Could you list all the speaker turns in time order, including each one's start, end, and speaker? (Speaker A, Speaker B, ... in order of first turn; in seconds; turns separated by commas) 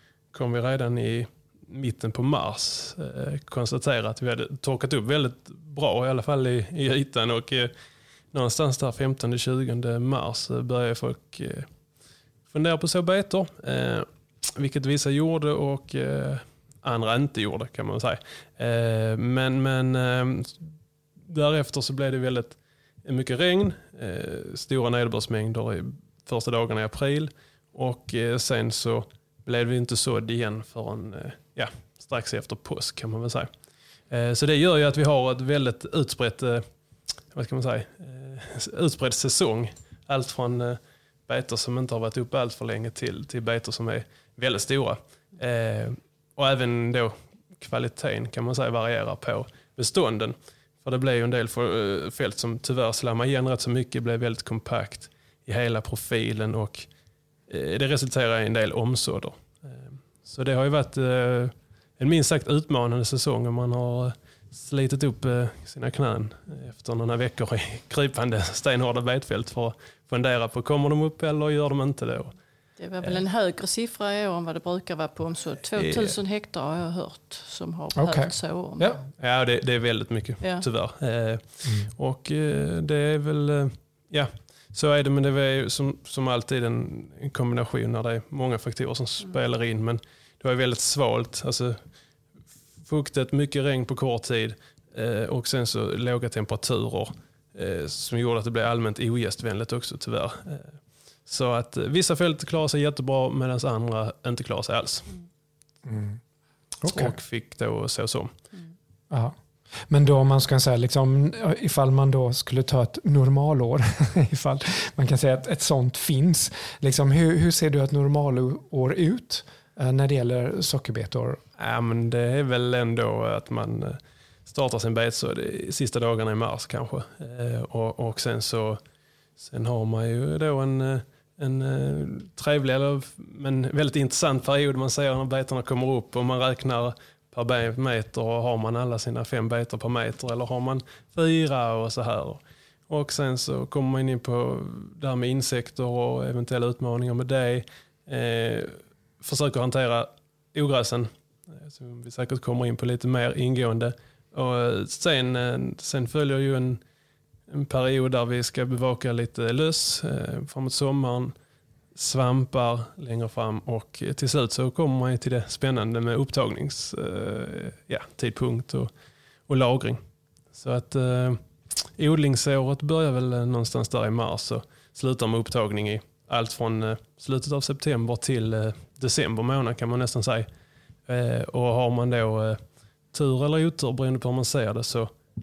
Speaker A: 0.3-7.7, Speaker A: 8.3-11.7, Speaker A: 12.5-20.7, Speaker A: 21.3-33.5, Speaker A: 34.1-36.6, Speaker A: 37.3-56.9, Speaker A: 57.5-72.3, Speaker B: 72.8-79.0, Speaker A: 75.8-76.2, Speaker C: 77.9-79.0, Speaker A: 79.2-91.8, Speaker A: 92.8-105.1, Speaker C: 105.8-106.2, Speaker C: 106.8-107.1, Speaker A: 106.9-108.3, Speaker C: 109.1-109.3, Speaker C: 109.9-121.4, Speaker A: 121.6-128.8, Speaker A: 129.4-156.8, Speaker A: 157.5-161.3, Speaker A: 161.9-168.9, Speaker A: 169.5-170.0, Speaker A: 170.5-171.4, Speaker A: 171.9-180.5, Speaker A: 181.1-182.6, Speaker A: 183.1-185.1